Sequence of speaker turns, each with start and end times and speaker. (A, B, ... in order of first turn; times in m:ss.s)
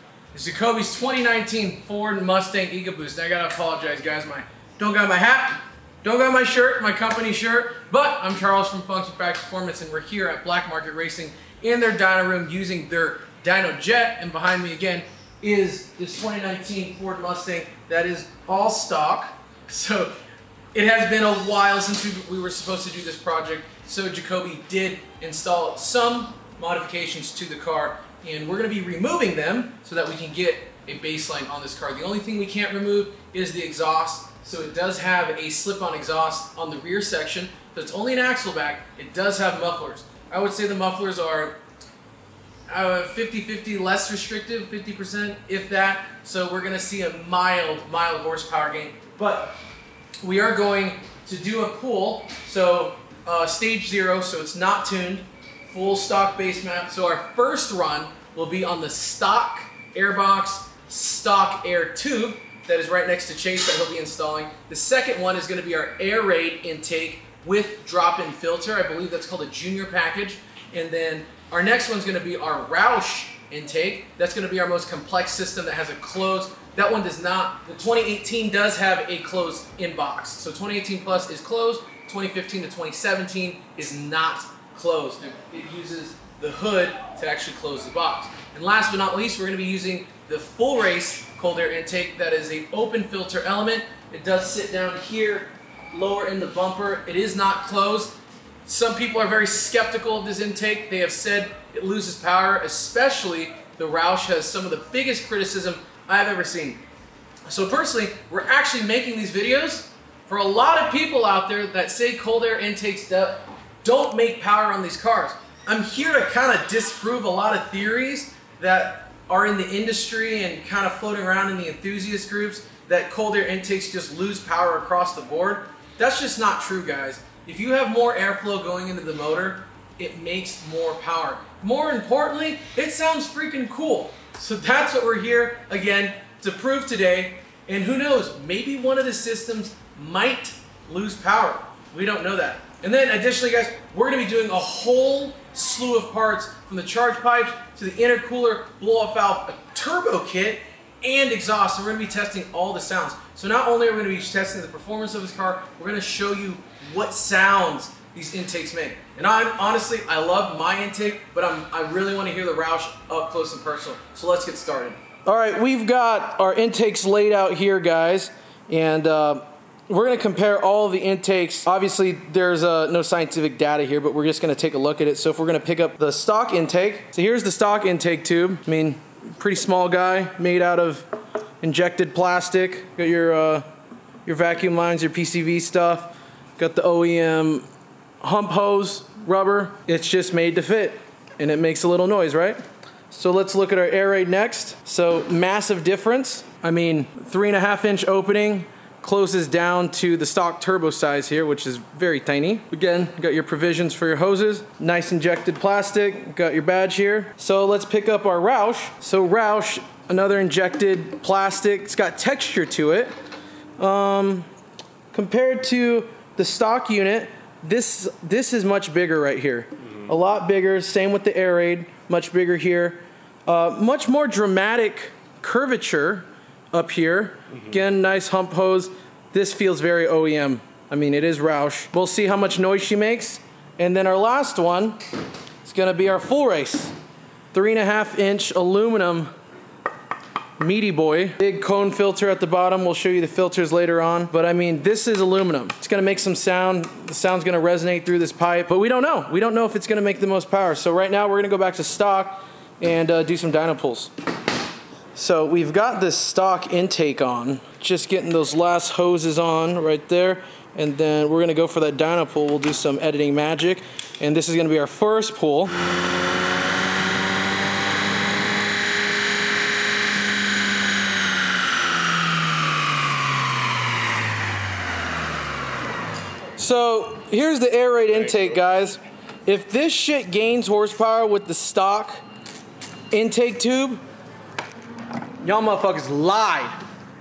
0:00.3-0:20.2 A
0:20.7-0:41.6 A
0:42.7-0:49.6 A
0:50.2-1:46.8 A
1:47.4-3:01.1 A
3:01.6-3:03.6 A
3:04.2-3:07.6 A
3:08.2-3:12.6 A
3:13.1-3:33.1 A
3:33.8-3:34.5 A
3:35.1-3:55.0 A
3:55.6-3:57.0 A
3:57.5-3:59.3 A
4:00.6-4:14.1 A
4:15.1-4:25.7 A
4:36.6-4:42.2 A
4:43.1-4:44.0 A
4:45.4-4:46.8 A